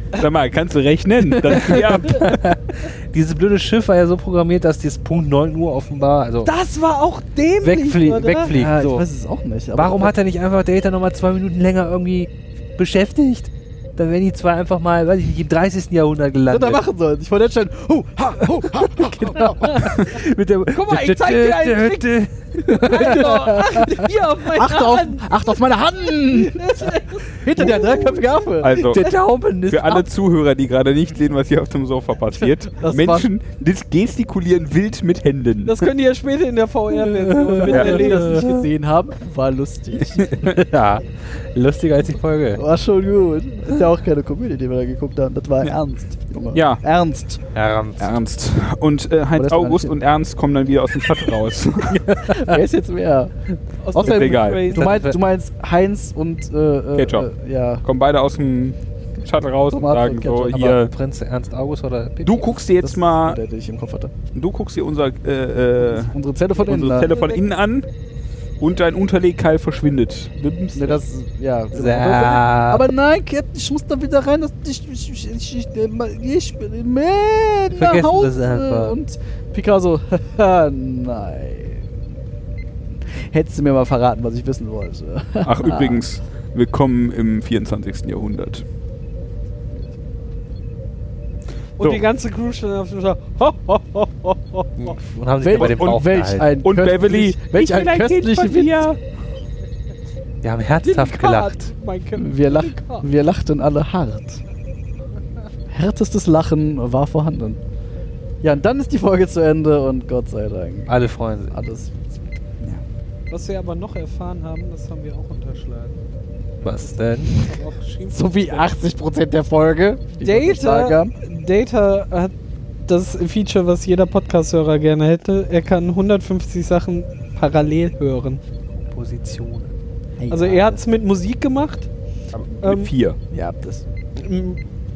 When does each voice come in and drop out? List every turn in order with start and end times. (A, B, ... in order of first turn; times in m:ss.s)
0:00.1-0:02.4 A
0:01.5-0:01.8 B
0:01.8-0:06.5 C
0:06.4-0:08.5 D
0:07.6-0:09.0 C
0:08.5-0:10.2 B
0:09.7-0:16.8 C
0:16.5-0:20.0 B
0:19.0-0:24.1 C
0:20.7-0:22.1 D
0:22.7-0:25.3 D
0:22.8-0:23.2 B
0:24.4-0:28.9 B
0:26.2-0:28.5 D
0:28.6-0:29.1 A
0:28.8-0:30.1 C
0:29.7-0:35.9 A
0:32.7-0:33.3 B
0:35.7-0:38.5 D
0:37.0-0:38.6 C
0:37.6-0:40.7 B
0:37.7-0:38.1 A
0:40.2-0:40.5 A
0:40.5-0:42.6 C
0:42.6-0:47.4 B
0:46.5-0:46.8 A
0:47.5-0:48.1 C
0:48.0-0:52.1 A
0:49.4-0:50.0 B
0:51.9-0:52.6 C
0:52.2-0:53.3 B
0:53.8-0:54.9 D
0:53.9-0:57.8 B
0:54.0-0:54.7 A
0:54.8-0:55.2 C
0:57.0-0:57.3 A
0:57.8-1:00.9 A
0:59.7-1:00.8 B
1:00.8-1:02.6 C
1:02.2-1:03.4 A
1:02.8-1:04.1 B
1:04.3-1:07.9 A
1:05.8-1:07.2 B
1:08.6-1:11.0 A
1:10.7-1:21.9 B
1:11.7-1:12.8 C
1:17.8-1:19.0 C
1:23.1-1:26.0 B
1:25.4-1:28.6 A
1:31.8-1:34.9 D
1:34.8-1:36.5 C
1:35.4-1:38.9 B
1:35.5-1:39.0 A
1:38.5-1:38.8 D
1:40.4-1:41.7 C
1:40.8-1:43.1 D
1:42.2-1:44.4 B
1:45.7-1:47.6 B
1:48.4-1:50.9 B
1:50.9-1:51.6 C
1:51.5-1:51.9 B
1:53.3-1:56.0 D
1:56.6-1:57.4 C
1:57.2-1:58.7 D
1:58.1-2:01.1 B
2:00.2-2:02.3 D
2:02.9-2:08.4 D
2:08.7-2:09.7 C
2:10.2-2:10.8 B
2:10.3-2:11.9 D
2:12.3-2:13.2 A
2:12.6-2:12.9 D
2:13.3-2:13.8 B
2:14.2-2:14.6 D